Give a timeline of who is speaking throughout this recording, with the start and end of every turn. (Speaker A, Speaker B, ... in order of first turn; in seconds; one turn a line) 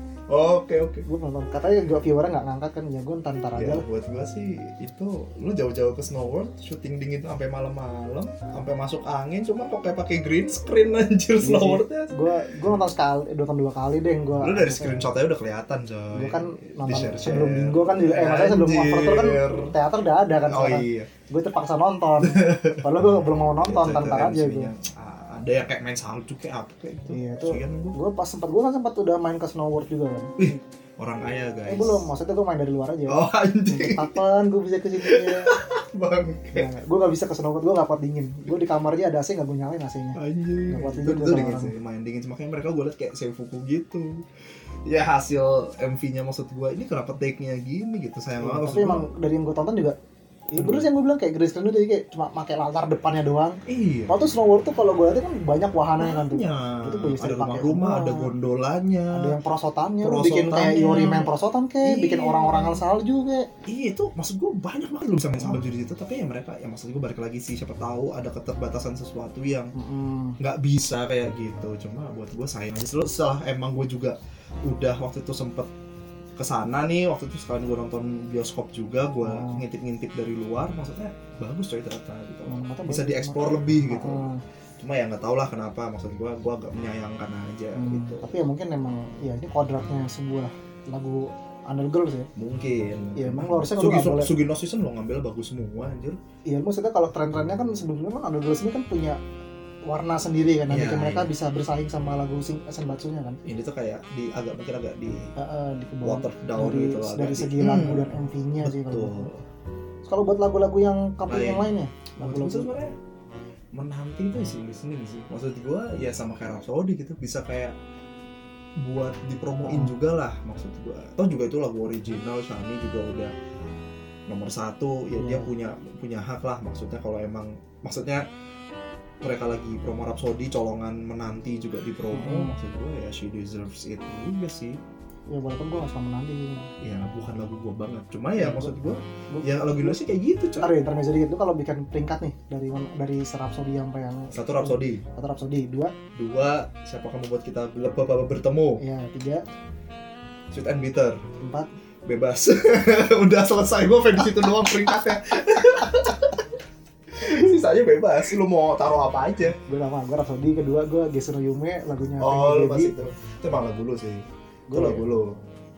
Speaker A: 0.3-1.1
Speaker B: 1.1-3.9
Speaker A: 3.5-12.3
Speaker B: 11.4-15.0
Speaker A: 14.4-19.8
Speaker B: 16.1-24.7
Speaker A: 20.4-21.1
Speaker A: 22.2-28.0
Speaker B: 27.1-30.5
Speaker A: 30.4-32.1
Speaker B: 31.7-35.5
Speaker A: 33.1-34.2
Speaker A: 35.0-36.7
Speaker B: 36.5-41.8
Speaker A: 40.1-44.2
Speaker A: 44.9-49.1
Speaker B: 48.4-50.0
Speaker B: 50.5-58.3
Speaker A: 50.6-50.9
Speaker A: 53.7-54.1
Speaker A: 56.0-59.4
Speaker B: 59.1-63.5
Speaker A: 60.0-62.8
Speaker A: 63.7-69.7
Speaker B: 69.8-70.4
Speaker A: 70.4-75.7
Speaker A: 76.4-88.3
Speaker B: 79.2-79.6
Speaker B: 82.5-84.4
Speaker B: 87.8-92.3
Speaker A: 92.4-96.2
Speaker B: 93.2-94.3
Speaker B: 96.5-99.2
Speaker B: 99.9-103.4
Speaker A: 100.7-101.3
Speaker A: 103.5-105.3
Speaker B: 105.4-109.3
Speaker A: 106.0-108.1
Speaker A: 108.6-109.4
Speaker B: 110.0-112.7
Speaker A: 111.3-111.7
Speaker A: 112.2-112.9
Speaker A: 113.8-117.8
Speaker A: 118.8-123.3
Speaker B: 119.6-119.9
Speaker A: 124.3-128.2
Speaker B: 125.2-125.5
Speaker A: 129.2-134.8
Speaker B: 132.1-132.5
Speaker B: 135.3-136.7
Speaker A: 136.8-140.7
Speaker B: 138.4-140.0
Speaker B: 140.6-145.9
Speaker A: 144.3-145.0
Speaker A: 146.2-148.8
Speaker B: 148.8-149.4
Speaker A: 150.5-151.2
Speaker B: 151.4-151.7
Speaker A: 152.1-156.4
Speaker A: 157.1-159.6
Speaker B: 159.7-162.9
Speaker A: 162.2-165.4
Speaker B: 164.7-165.0